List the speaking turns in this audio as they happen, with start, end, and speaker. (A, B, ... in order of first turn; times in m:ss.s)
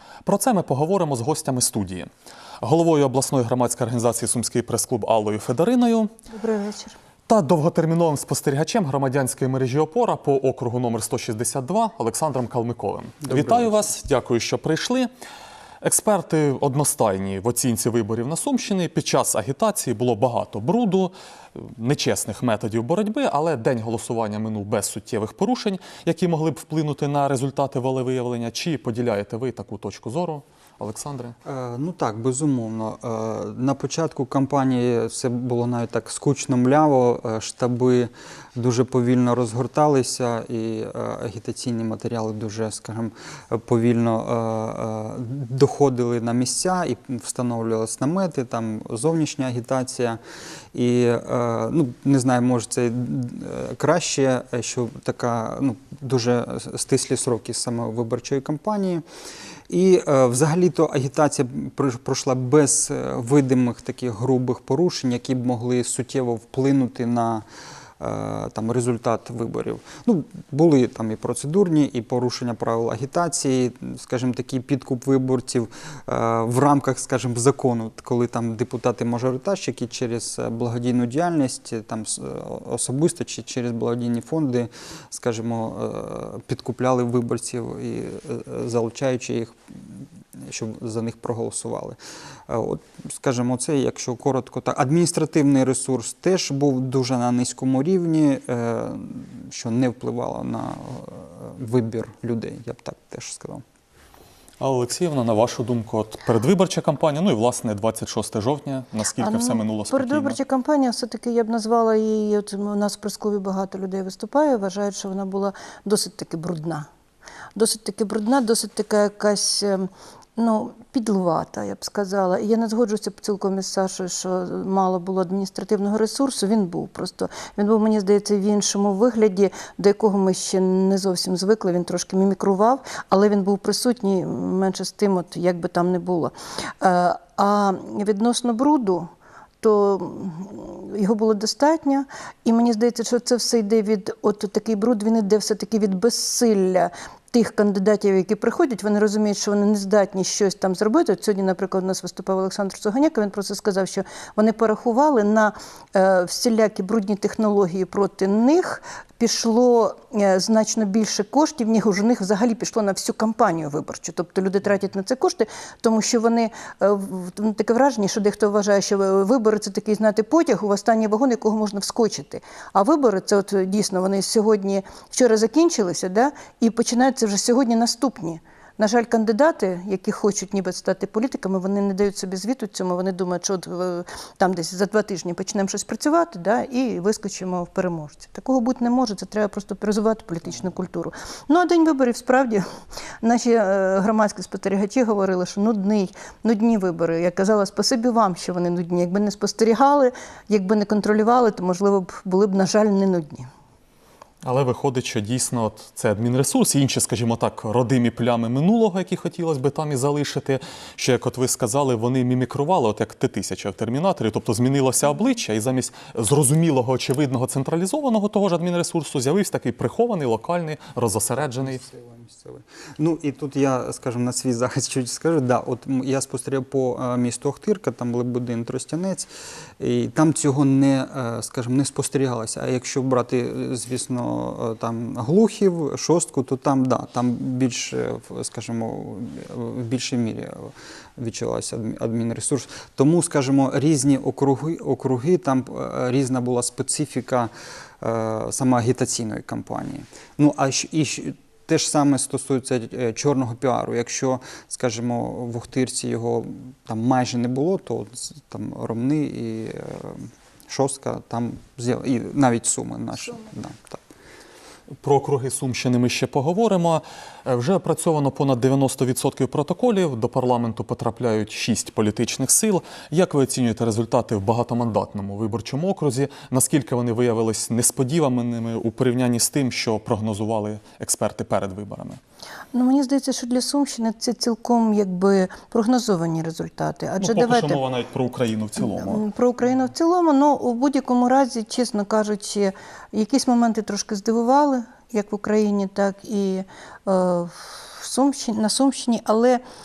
0:00.2-0:02.1 A
0:02.6-0:06.1 A
0:06.3-0:07.0 B
0:07.3-0:15.1 A
0:13.3-0:13.7 C
0:15.8-0:31.4 A
0:31.4-0:50.2 C
0:50.7-0:59.0 C
0:59.7-1:07.4 C
1:08.0-1:43.6 C
1:44.6-1:50.4 A
1:49.2-1:56.9 B
1:57.6-3:12.6 B
3:13.2-3:23.5 B
3:24.4-3:41.8 A
3:41.6-4:24.0 C
4:25.0-4:42.2 A
4:42.7-4:47.8 B
4:47.2-4:49.2 A
4:48.8-4:59.6 B